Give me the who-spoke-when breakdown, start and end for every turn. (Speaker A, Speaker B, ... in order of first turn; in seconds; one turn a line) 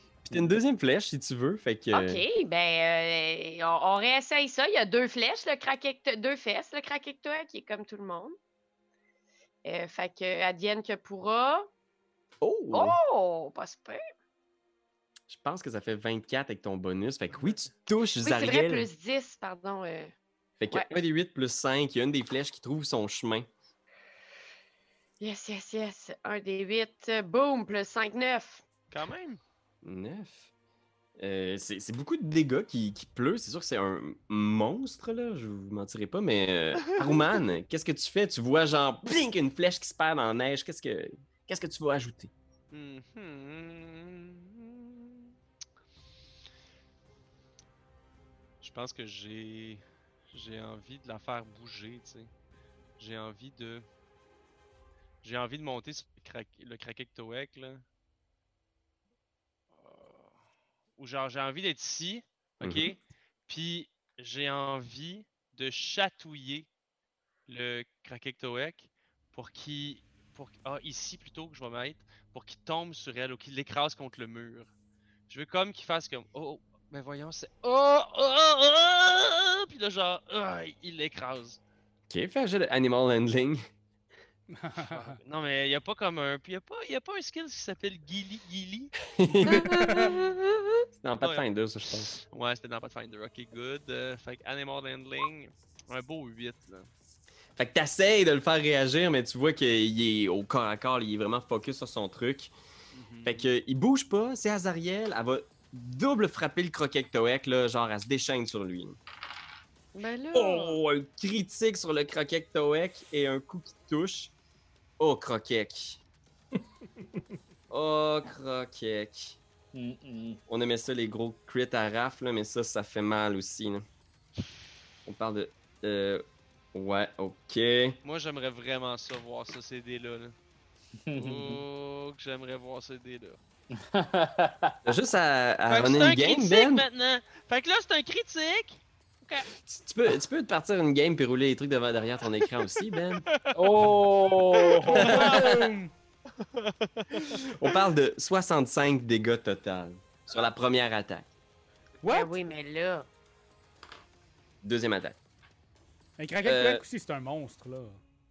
Speaker A: 0.2-2.2
Speaker B: 1.9-8.3
Speaker B: 9.6-11.7
Speaker A: 12.4-13.0
Speaker B: 12.7-14.0
Speaker A: 15.3-18.9
Speaker B: 18.2-20.1
Speaker A: 20.6-23.5
Speaker B: 20.7-20.9
Speaker B: 25.2-28.6
Speaker C: 28.9-29.4
Speaker A: 29.8-30.5
Speaker A: 31.2-42.3
Speaker C: 42.7-45.3
Speaker C: 48.6-52.3
Speaker C: 53.0-53.8
Speaker C: 55.2-57.8
Speaker C: 59.8-60.3
Speaker C: 61.0-66.7
Speaker A: 62.6-62.9
Speaker C: 67.5-74.7
Speaker C: 75.3-81.6
Speaker A: 82.1-83.6
Speaker D: 84.5-85.2
Speaker C: 84.9-89.0
Speaker A: 89.2-90.0
Speaker D: 89.7-90.0
Speaker A: 91.0-92.2
Speaker C: 91.2-96.9
Speaker A: 97.5-102.5
Speaker C: 102.9-103.5
Speaker A: 103.2-109.0
Speaker B: 109.9-110.8
Speaker A: 110.3-114.3
Speaker A: 115.0-116.0
Speaker A: 117.7-119.4
Speaker E: 119.7-120.4
Speaker A: 120.5-123.8
Speaker A: 125.0-128.0
Speaker C: 128.0-130.3
Speaker E: 131.1-131.6
Speaker C: 131.2-133.4
Speaker E: 133.7-134.8
Speaker A: 134.8-136.8
Speaker C: 135.7-139.5
Speaker A: 139.6-143.3
Speaker C: 143.3-143.5
Speaker E: 143.5-145.3
Speaker C: 144.6-145.6
Speaker D: 144.8-145.9
Speaker A: 145.0-145.3
Speaker C: 146.4-147.4
Speaker A: 147.3-151.3
Speaker B: 152.0-153.1
Speaker D: 152.0-152.4
Speaker A: 154.6-155.2
Speaker D: 156.2-158.0
Speaker A: 156.4-156.8